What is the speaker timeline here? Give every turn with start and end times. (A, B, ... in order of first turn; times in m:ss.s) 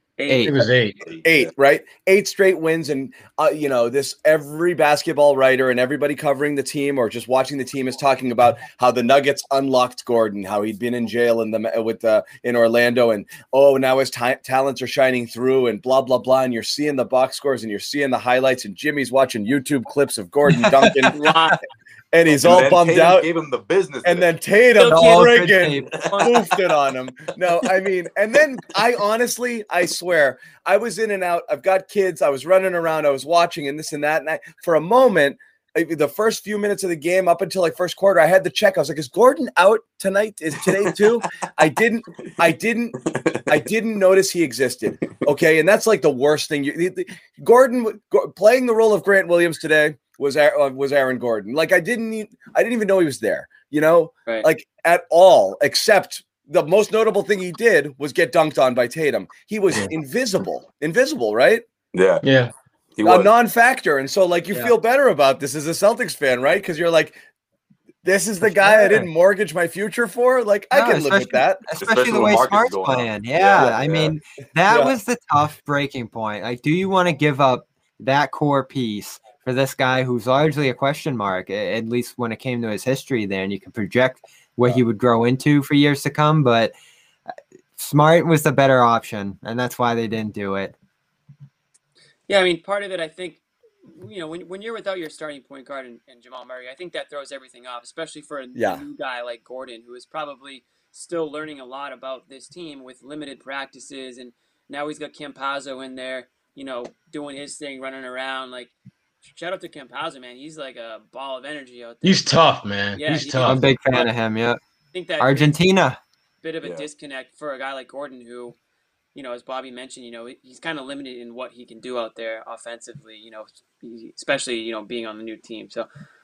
0:00.2-0:00.6 A
0:00.3-0:00.6 B
0:00.4-0:01.0 C
0:01.1-0:01.4 D
0:01.2-0:21.2 E
0:20.5-0:21.1 B
0:21.1-0:21.6 A
0:22.1-0:23.3 E
0:22.4-0:24.3 D
0:24.0-1:01.6 E
0:24.8-0:25.9 B
0:26.0-0:26.3 A
0:43.0-0:43.4 D
1:01.9-1:02.2 D
1:02.2-1:02.5 C
1:03.0-1:03.3 D
1:03.0-1:07.2 E
1:08.0-1:11.6 E
1:08.4-1:09.0 B
1:10.7-1:26.7 B
1:11.8-1:14.1 D
1:14.7-1:15.0 E
1:27.8-1:30.7 B
1:32.3-1:48.7 A
1:38.5-1:38.8 E
1:49.2-1:52.4 A
1:52.0-1:53.7 C
1:52.9-1:54.1 A
1:53.4-1:54.6 B
1:54.9-1:55.6 A
1:55.2-1:56.0 B
1:56.4-1:58.5 A
1:59.1-2:05.9 A